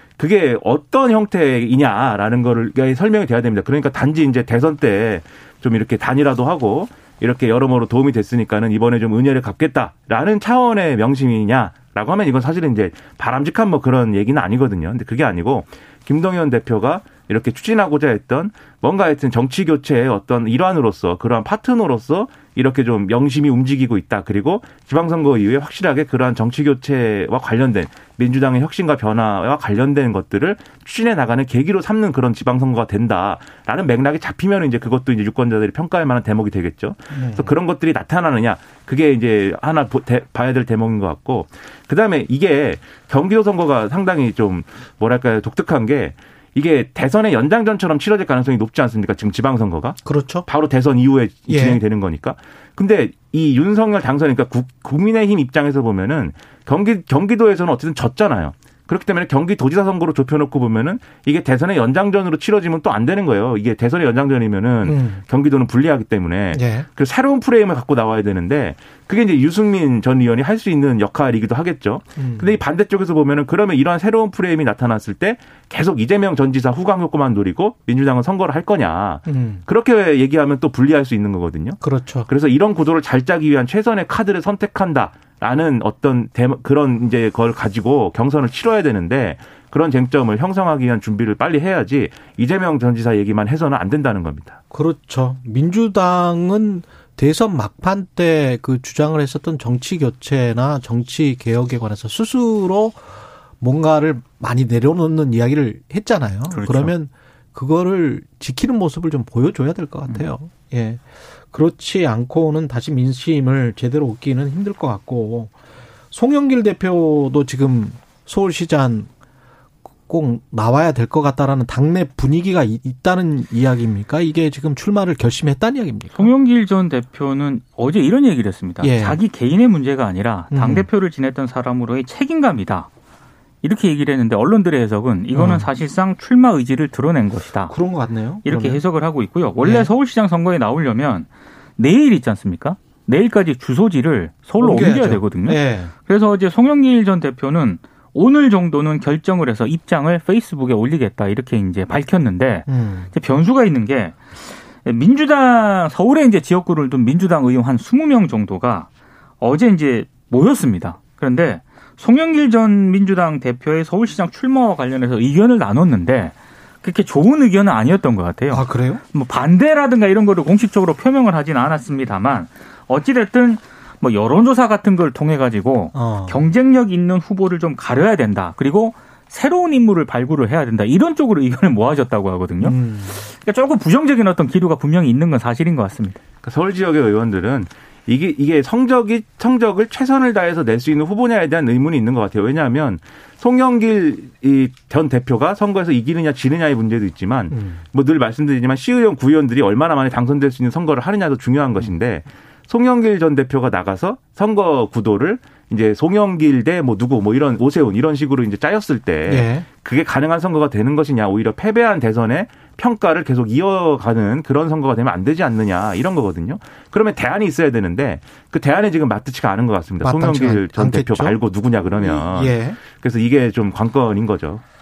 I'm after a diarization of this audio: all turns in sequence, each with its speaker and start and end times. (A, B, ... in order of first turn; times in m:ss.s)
0:00.2-1:34.6 A
0:37.1-0:37.5 B
0:50.0-0:50.5 B
0:51.5-0:51.8 B
1:04.8-1:05.2 B
1:06.5-1:06.9 B
1:12.2-1:12.6 B
1:19.3-1:19.6 B
1:21.8-1:22.3 B
1:34.7-1:43.0 B
1:43.6-1:55.5 B
1:56.1-1:59.1 B
2:00.1-2:06.3 B
2:06.1-2:12.9 C
2:08.8-2:09.2 B
2:10.5-2:10.9 B
2:13.6-2:17.7 C
2:15.3-2:15.7 B
2:17.7-2:18.8 B
2:18.4-2:38.9 C
2:19.6-2:19.9 B
2:24.6-2:25.9 B
2:32.7-2:33.1 B
2:39.4-3:06.2 C
2:48.5-2:49.0 B
2:55.9-2:56.4 B
3:02.6-3:03.2 B
3:06.4-3:44.6 A
3:17.5-3:17.8 B
3:29.2-3:29.7 B
3:40.0-3:41.4 B
3:42.0-3:42.8 B